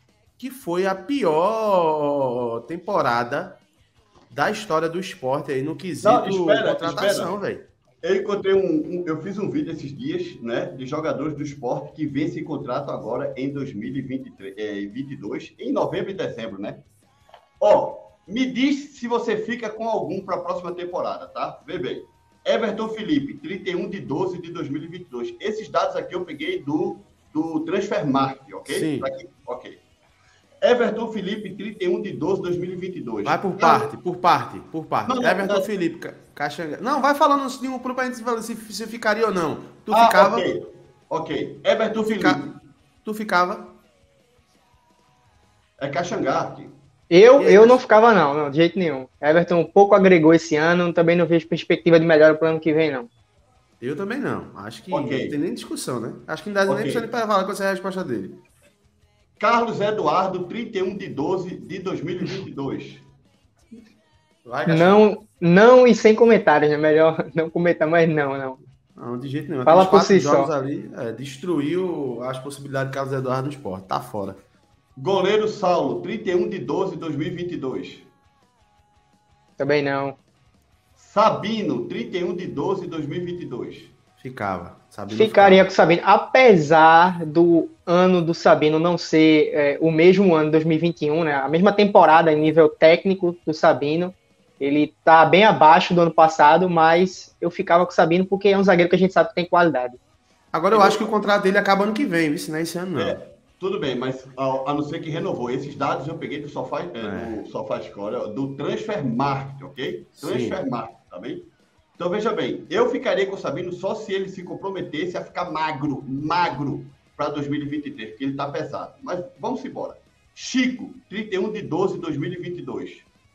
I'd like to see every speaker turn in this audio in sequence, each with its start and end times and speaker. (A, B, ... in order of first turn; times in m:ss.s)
0:00.4-0:03.6 A
0:04.3-0:07.6 A
0:06.0-0:07.4 B
0:08.0-0:16.8 B
0:17.6-0:29.8 B
0:28.6-0:29.1 A
0:30.6-0:33.9 B
0:33.2-0:40.4 A
0:35.0-0:35.7 B
0:39.9-0:42.5 B
0:42.0-0:42.4 A
0:43.0-0:43.7 A
0:45.8-0:46.7 B
0:47.1-0:53.1 C
0:47.4-0:47.8 A
0:53.8-0:58.4 A
0:54.9-0:55.4 B
0:56.7-0:57.1 B
0:59.4-1:03.0 B
1:04.4-1:05.0 A
1:04.7-1:08.6 C
1:09.0-1:14.4 A
1:09.6-1:10.5 C
1:15.0-1:18.1 B
1:19.6-1:20.2 C
1:21.0-1:23.9 B
1:24.2-1:25.7 A
1:25.1-1:40.0 C
1:40.5-1:43.2 A
1:40.7-1:41.0 B
1:43.0-1:51.4 B
1:47.0-1:47.4 A
1:50.2-1:50.6 A
1:52.0-2:03.0 B